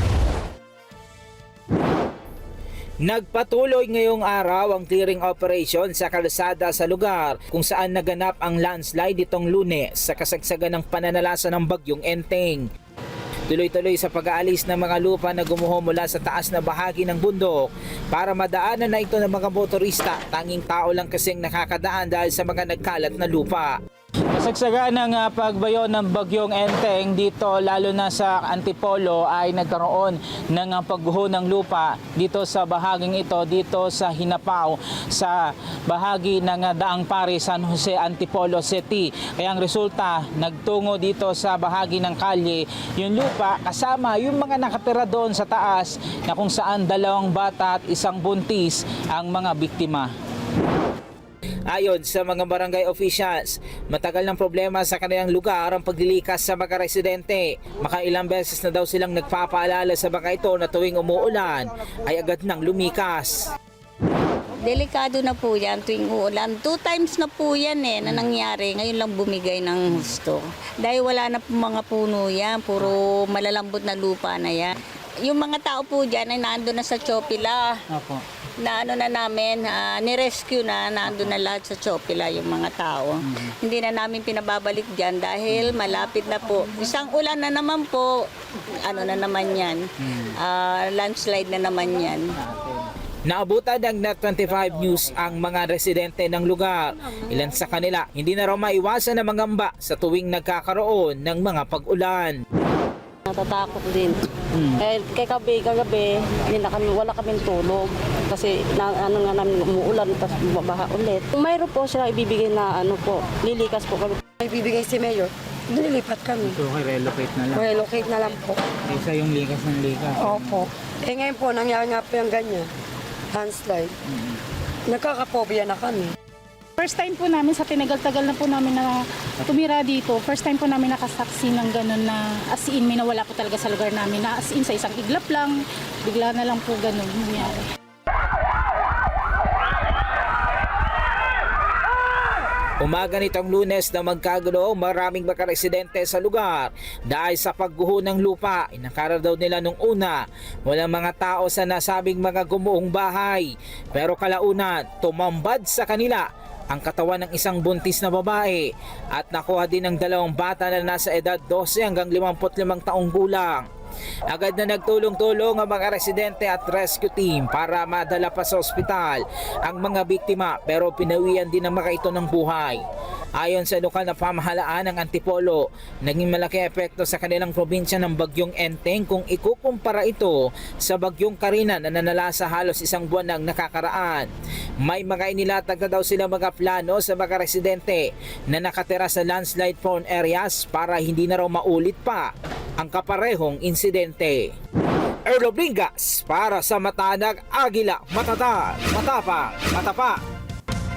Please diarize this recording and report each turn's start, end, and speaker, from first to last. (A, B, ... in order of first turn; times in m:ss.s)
0:03.0-0:12.6 A
0:13.5-0:23.8 A
0:24.3-0:50.1 A
0:51.7-1:03.5 A
1:04.6-1:17.8 B
1:17.9-1:18.2 A
1:18.6-1:32.3 B
1:33.3-1:42.4 A
1:43.3-1:54.2 C
1:54.4-1:56.6 D
1:56.4-1:57.6 A
1:57.5-1:58.6 D
1:58.9-2:00.6 A
2:00.2-2:02.7 D
2:03.3-2:03.9 D
2:04.9-2:06.1 D
2:06.8-2:15.5 E
2:16.0-2:17.7 E
2:22.8-2:43.7 A
2:44.3-2:52.8 A
2:53.4-3:04.3 A
3:04.8-3:14.5 A
3:15.3-3:20.2 A